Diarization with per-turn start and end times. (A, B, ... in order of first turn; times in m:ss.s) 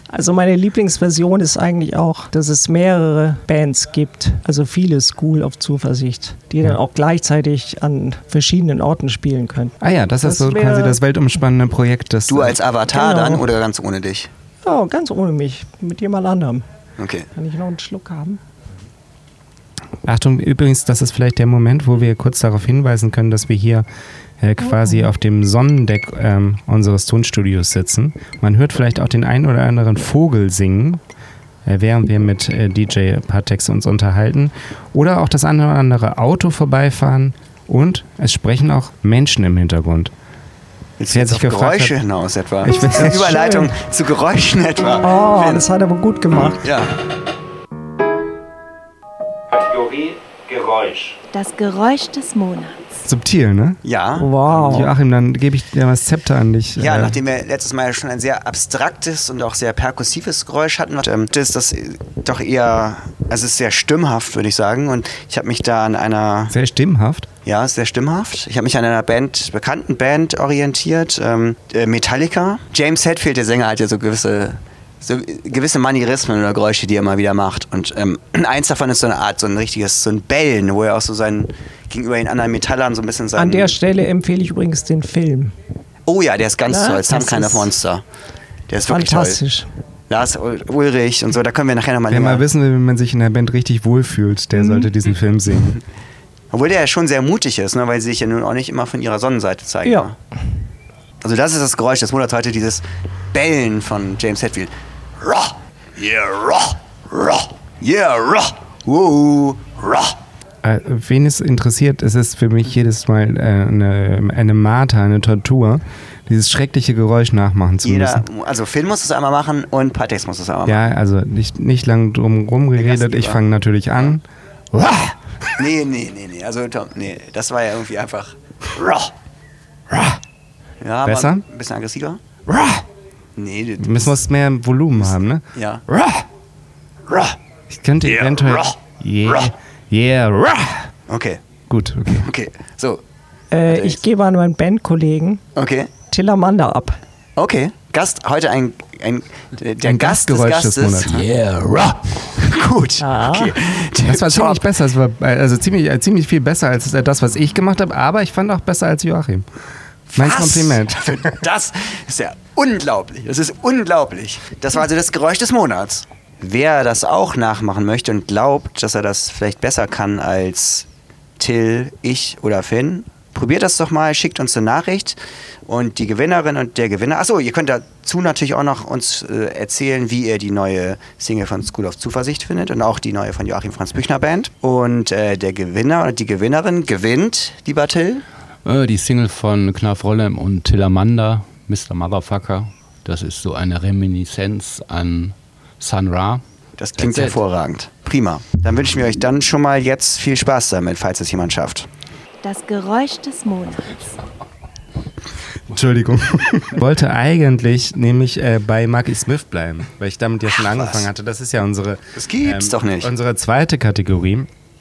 0:00.1-0:11.0 A
0:09.8-0:12.6 B
0:12.3-0:14.3 C
0:12.9-0:13.4 A
0:14.6-0:16.6 A
0:17.0-0:17.3 C
0:17.3-0:18.4 A
0:20.0-0:23.8 B
0:24.4-0:31.0 B
0:24.6-0:25.0 A
0:31.6-0:40.1 B
0:41.0-0:45.7 C
0:41.1-0:42.0 B
0:42.6-0:43.4 B
0:43.2-0:43.7 A
0:45.0-0:46.7 A
0:46.4-0:47.0 C
0:49.5-0:51.2 B
0:51.3-0:52.8 D
0:53.0-0:53.8 B
0:53.8-0:54.9 C
0:54.2-0:54.9 A
0:54.7-0:57.2 B
0:56.8-1:06.5 C
1:06.5-1:07.3 B
1:07.4-1:23.8 C
1:23.4-1:25.5 A
1:26.0-1:28.0 C
1:26.7-1:27.7 A
1:28.7-1:29.4 C
1:28.8-1:29.7 A
1:30.1-1:32.4 C
1:32.1-1:35.8 B
1:34.5-1:34.9 A
1:36.5-1:40.2 C
1:41.2-1:50.2 C
1:50.6-1:58.2 B
1:57.8-2:00.8 C
2:00.6-2:05.6 B
2:02.8-2:03.4 C
2:05.6-2:09.1 C
2:09.9-2:10.2 B
2:10.8-2:12.2 C
2:11.0-2:11.4 B
2:12.5-2:12.8 B
2:13.4-2:14.2 C
2:13.8-2:16.2 B
2:14.9-2:15.8 C
2:17.1-2:17.4 C
2:17.7-2:20.9 B
2:18.0-2:19.5 C
2:21.1-2:21.4 C
2:21.7-2:22.3 B
2:22.1-2:23.0 C
2:23.5-2:25.4 A
2:23.6-2:24.0 C
2:25.5-2:25.9 C
2:26.1-2:27.0 A
2:27.4-2:31.3 C
2:29.8-2:31.2 B
2:31.1-2:32.3 E
2:32.3-2:34.7 C
2:33.0-2:33.6 A
2:34.0-2:39.4 B
2:40.1-2:50.9 C
2:40.1-2:41.3 B
2:51.4-3:08.2 C
3:08.6-3:16.4 E
3:16.8-3:21.9 C
3:17.0-3:17.4 E
3:22.4-3:24.2 D
3:25.7-3:34.5 B
3:30.6-3:31.1 C
3:32.1-3:33.1 C